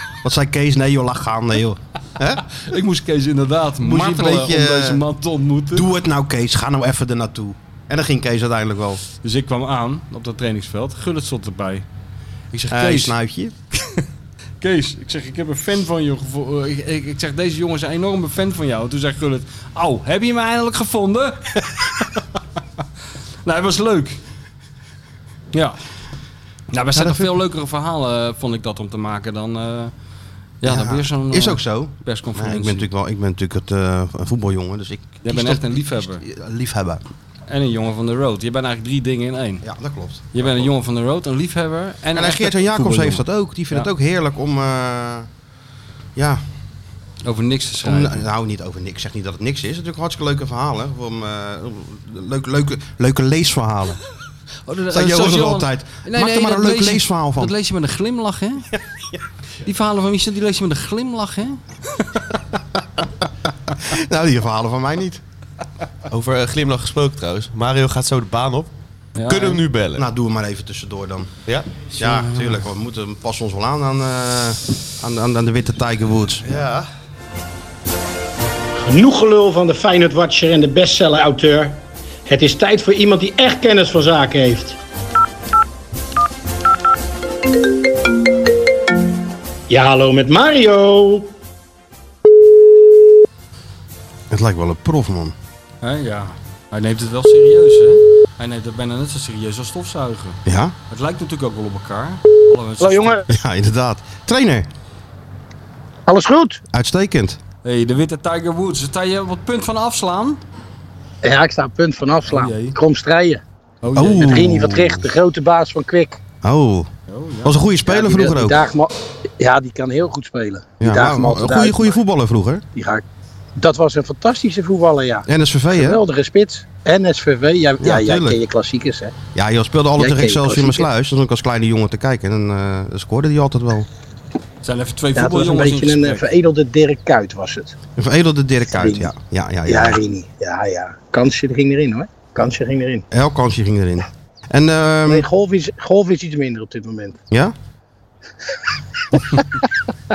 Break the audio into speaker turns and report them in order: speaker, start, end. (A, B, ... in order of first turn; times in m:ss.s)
0:00.2-0:02.4 A
0:02.5-0:05.9 B
0:03.8-0:05.0 A
0:05.7-0:09.0 A
0:09.2-0:11.8 B
0:12.5-0:13.1 B
0:12.7-0:13.5 A
0:14.6-0:22.0 B
0:23.4-0:24.2 B
0:25.5-0:25.8 B
0:26.7-0:29.9 B
0:26.9-0:27.4 A
0:30.6-0:32.9 B
0:30.6-0:37.0 A
0:35.2-0:36.2 B
0:37.5-0:39.7 B
0:39.6-0:40.7 A
0:40.3-0:43.9 B
0:42.1-0:45.3 A
0:46.2-0:46.4 A
0:47.2-0:48.2 B
0:47.8-0:54.0 A
0:54.6-0:58.7 B
0:54.9-0:57.5 A
0:59.6-1:02.3 B
1:03.7-1:05.2 A
1:06.1-1:08.7 C
1:09.2-1:09.6 B
1:09.2-1:10.0 C
1:10.0-1:11.3 A
1:12.0-1:16.6 A
1:12.0-1:12.6 B
1:16.4-1:16.9 C
1:18.8-1:24.8 D
1:29.7-1:31.3 D
1:34.3-1:35.3 A
1:35.8-1:40.4 B
1:40.4-1:40.7 A
1:40.9-1:43.2 B
1:42.8-1:43.2 D
1:43.3-1:44.7 A
1:46.1-1:46.6 D
1:46.7-1:47.4 A
1:47.6-1:50.4 B
1:51.2-1:53.4 D
1:52.3-1:52.8 B
1:53.8-1:54.4 B
1:53.9-1:55.0 A
1:54.1-1:56.2 D
1:56.4-1:56.9 A
1:57.1-1:57.5 B
1:57.4-1:58.6 A
1:57.8-2:02.0 D
2:00.8-2:02.6 A
2:02.7-2:03.0 D
2:03.6-2:09.1 D
2:05.3-2:06.0 A
2:07.8-2:08.4 A
2:09.3-2:13.9 A
2:10.0-2:10.8 D
2:14.6-2:16.2 B
2:15.1-2:17.7 D
2:18.0-2:20.0 A
2:18.7-2:19.1 D
2:19.6-2:23.1 D
2:23.1-2:25.3 A
2:25.1-2:27.2 D
2:29.1-2:29.7 D